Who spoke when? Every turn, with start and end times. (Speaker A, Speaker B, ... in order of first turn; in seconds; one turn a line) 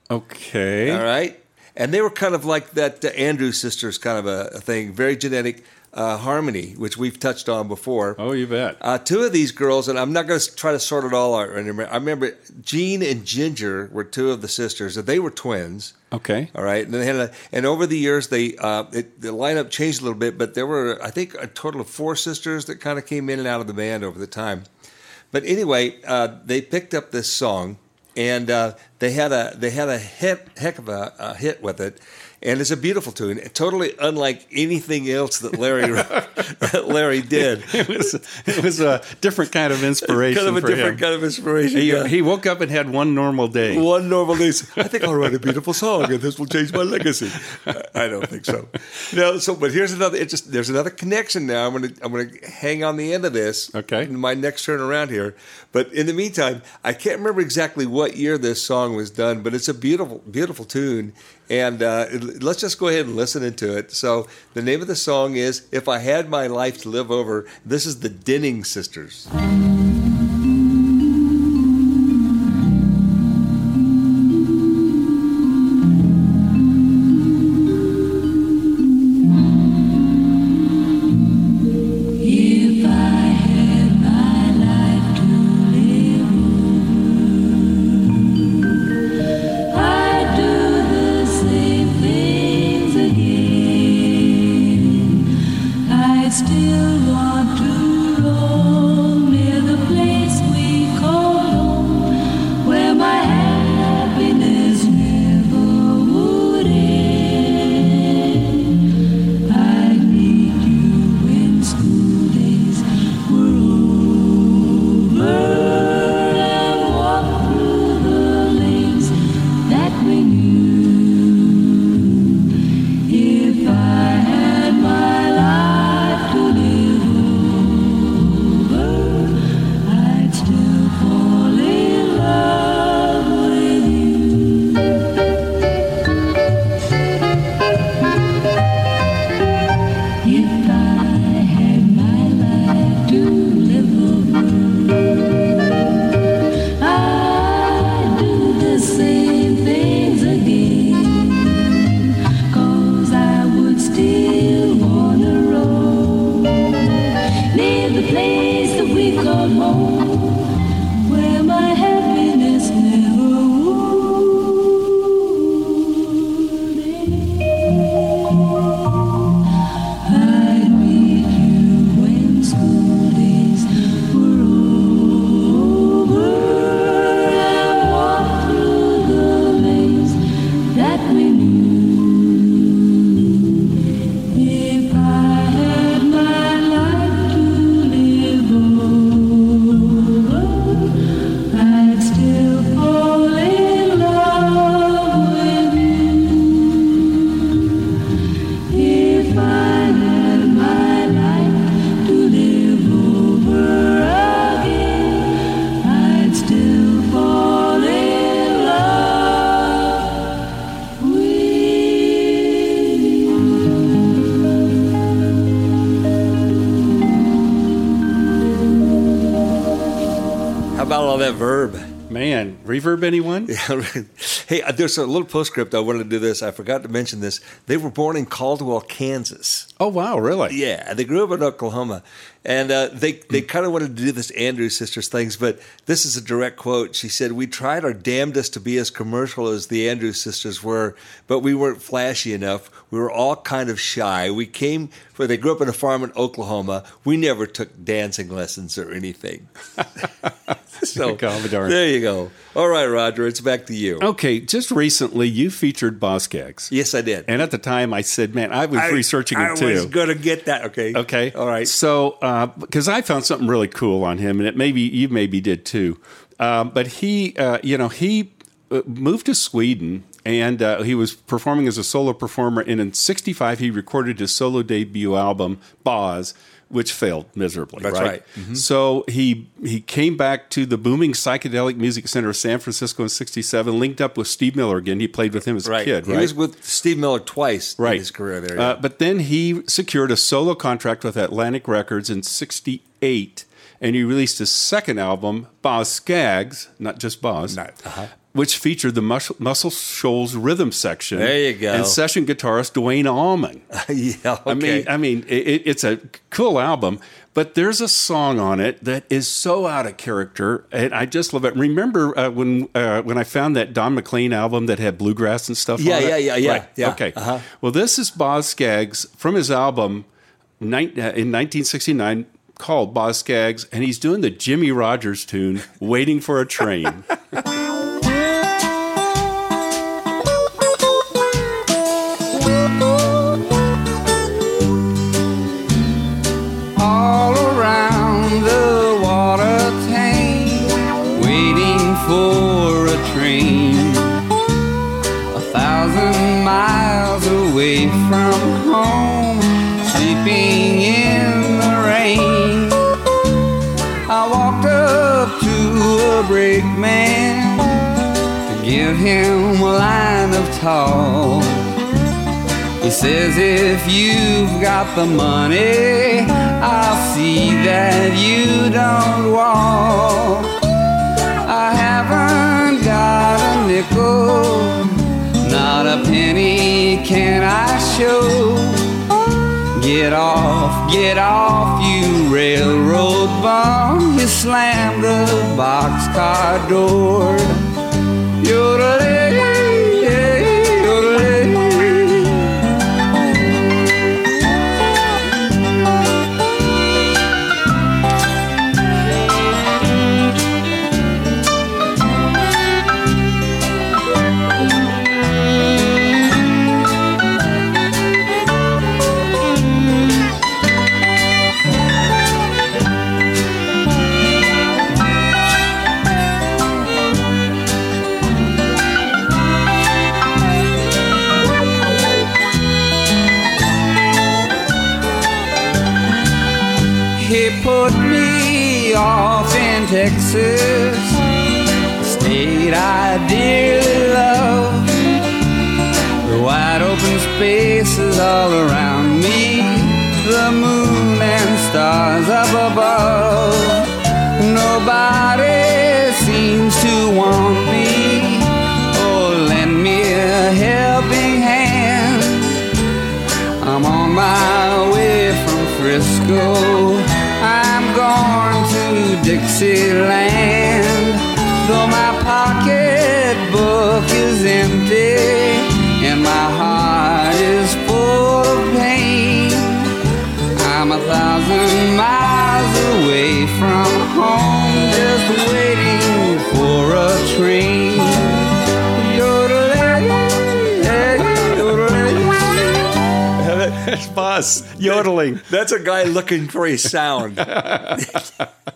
Speaker A: 0.1-1.0
Speaker B: 0.8-8.2
Speaker A: 8.2-8.8
Speaker B: 8.8-16.0
Speaker A: 16.1-16.5
Speaker B: 16.5-24.6
Speaker B: 25.3-38.0
Speaker A: 37.4-41.0
Speaker B: 40.0-42.1
Speaker A: 41.7-43.9
Speaker B: 43.7-69.3
Speaker A: 53.7-54.1
Speaker C: 82.2-86.6
Speaker C: 89.7-95.1
Speaker C: 95.9-102.1
Speaker C: 102.6-108.6
Speaker C: 109.5-119.1
Speaker C: 119.7-121.6
Speaker C: 123.1-129.3
Speaker C: 129.8-134.5
Speaker C: 140.2-144.8
Speaker C: 146.8-151.7
Speaker C: 152.5-156.5
Speaker C: 157.5-160.4
Speaker C: 161.0-164.5
Speaker C: 170.1-180.2
Speaker C: 180.7-182.5
Speaker C: 184.3-190.6
Speaker C: 191.5-196.5
Speaker C: 198.7-205.3
Speaker C: 205.8-209.7
Speaker C: 211.0-212.4
Speaker B: 220.7-221.9
Speaker A: 222.1-223.5
Speaker B: 223.5-229.7
Speaker A: 229.8-230.6
Speaker B: 230.5-249.5
Speaker B: 250.8-254.1
Speaker A: 250.9-251.8
Speaker A: 254.0-256.7
Speaker B: 256.7-257.3
Speaker A: 257.3-259.9
Speaker B: 258.7-261.7
Speaker A: 260.9-286.3
Speaker B: 277.8-278.6
Speaker B: 285.6-288.8
Speaker A: 287.8-297.6
Speaker B: 297.5-298.1
Speaker A: 298.3-303.6
Speaker B: 301.1-302.0
Speaker B: 303.7-304.9
Speaker A: 304.5-320.1
Speaker B: 315.8-317.4
Speaker A: 320.6-327.1
Speaker D: 336.8-344.2
Speaker D: 345.3-353.0
Speaker D: 354.1-357.8
Speaker D: 358.5-361.7
Speaker D: 362.8-370.5
Speaker D: 371.4-379.0
Speaker D: 379.7-387.7
Speaker D: 388.4-392.5
Speaker D: 427.1-431.2
Speaker D: 432.0-435.0
Speaker D: 436.2-452.6
Speaker D: 453.6-469.9
Speaker D: 470.5-482.9
Speaker B: 483.4-488.1
Speaker A: 484.7-485.4
Speaker A: 487.4-488.4